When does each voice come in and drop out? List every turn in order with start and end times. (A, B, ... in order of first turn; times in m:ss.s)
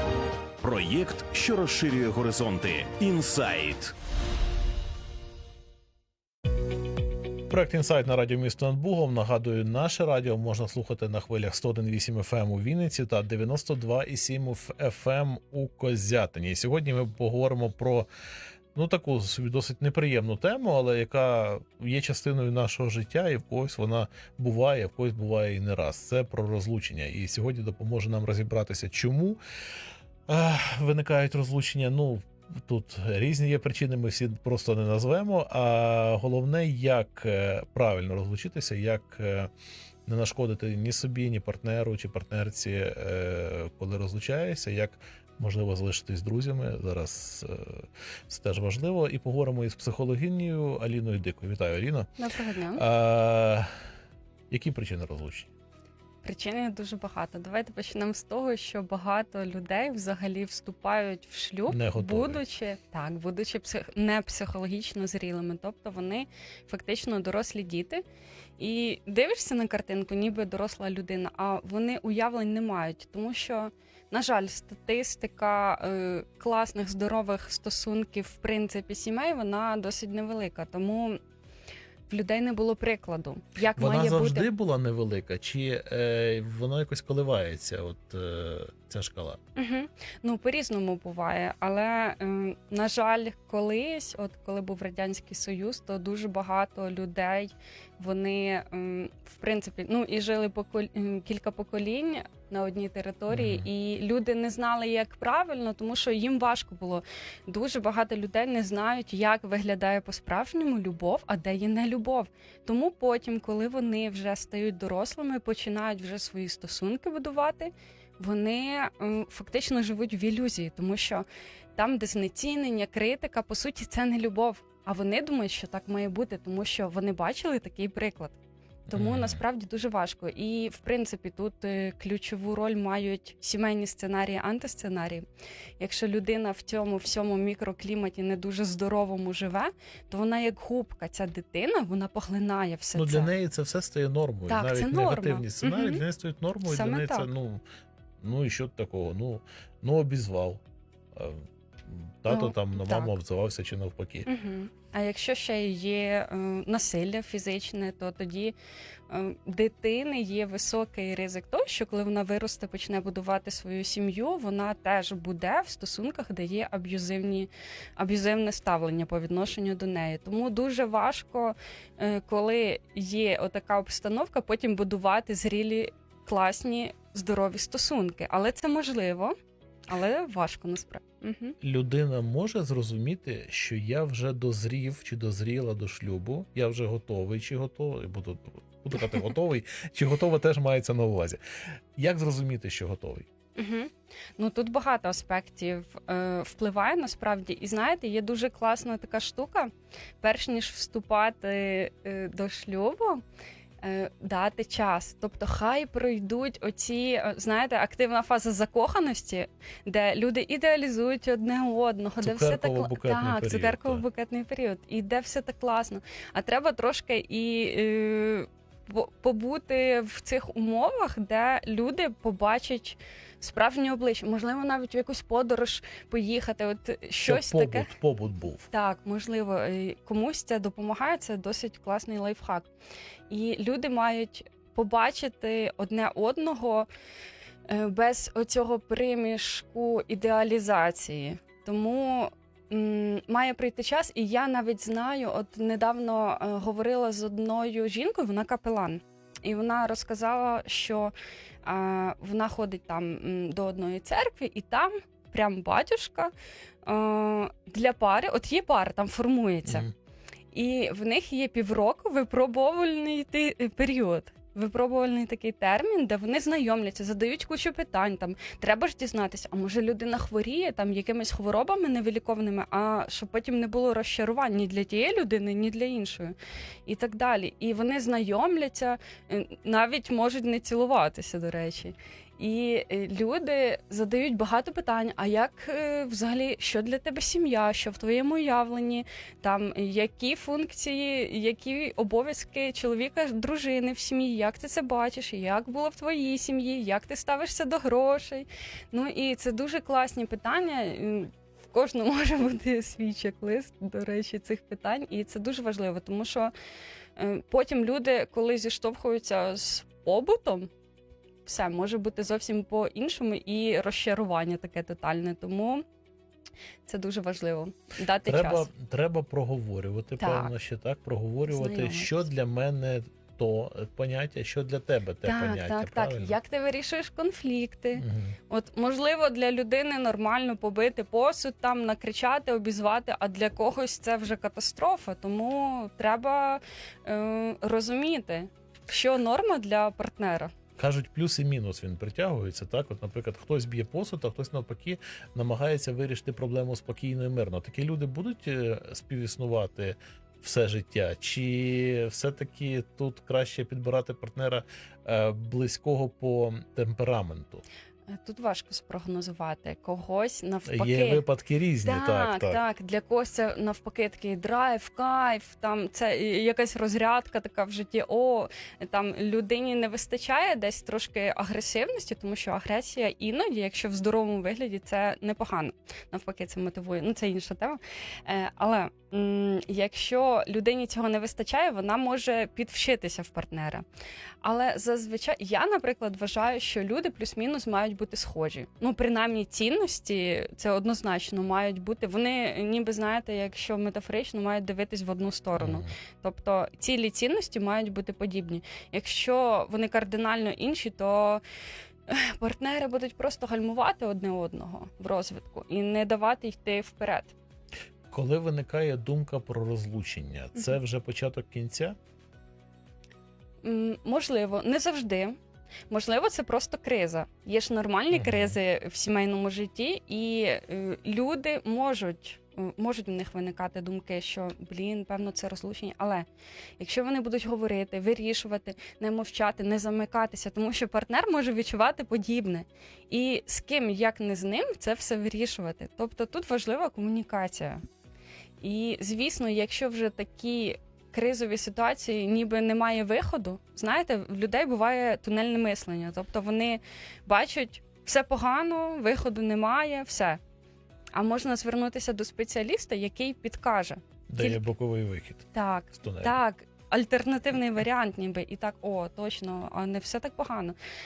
0:00.6-0:03.9 A
0:07.5-0:18.1 B
0:18.7-0:29.4 B
0:30.3-0:39.5 B
0:40.0-0:52.1 B
0:52.2-0:52.8 C
0:52.7-0:53.7 B
0:54.5-0:55.5 B
0:56.2-1:08.0 C
1:01.7-1:02.4 B
1:08.6-1:21.2 C
1:22.1-1:24.5 C
1:23.8-1:29.4 B
1:29.6-2:01.2 C
1:43.3-1:43.7 B
2:01.8-2:08.4 C
2:08.9-2:15.2 C
2:08.9-2:09.4 B
2:15.8-2:23.3 C
2:22.9-2:27.6 B
2:24.5-2:26.0 C
2:26.6-2:27.3 C
2:28.2-2:30.6 B
2:31.1-2:34.3 B
2:32.3-2:33.2 C
2:34.3-2:38.5 C
2:39.1-2:59.3 C
2:59.9-3:01.6 C
3:01.6-3:11.4 B
3:12.0-3:13.3 B
3:13.6-3:19.7 C
3:20.2-3:23.2 C
3:23.8-3:47.9 C
3:32.2-3:34.0 B
3:47.2-3:48.7 B
3:48.7-3:52.7 C
3:53.3-3:56.9 C
3:57.7-4:11.1 C
4:11.6-4:16.3 C
4:16.8-4:19.9 C
4:19.6-4:19.9 B
4:20.5-5:06.5 C
5:07.2-5:10.7 C
5:11.4-5:15.8 C
5:16.8-5:18.7 C
5:18.2-5:26.4 B
5:20.2-5:20.5 C
5:21.5-5:22.3 C
5:25.2-5:40.5 C
5:27.9-5:28.4 B
5:40.8-5:57.6 B
5:58.1-6:01.2 C
6:00.6-6:02.6 B
6:01.8-6:23.8 C
6:24.4-6:41.4 C
6:35.6-6:35.9 B
6:42.1-6:47.3 C
6:48.1-6:52.0 B
6:53.6-6:55.4 C
6:55.9-7:06.3 C
6:58.1-6:58.6 B
7:06.8-7:17.8 C
7:18.6-7:30.4 C
7:31.1-7:34.6 C
7:34.3-7:36.4 B
7:35.5-7:40.8 C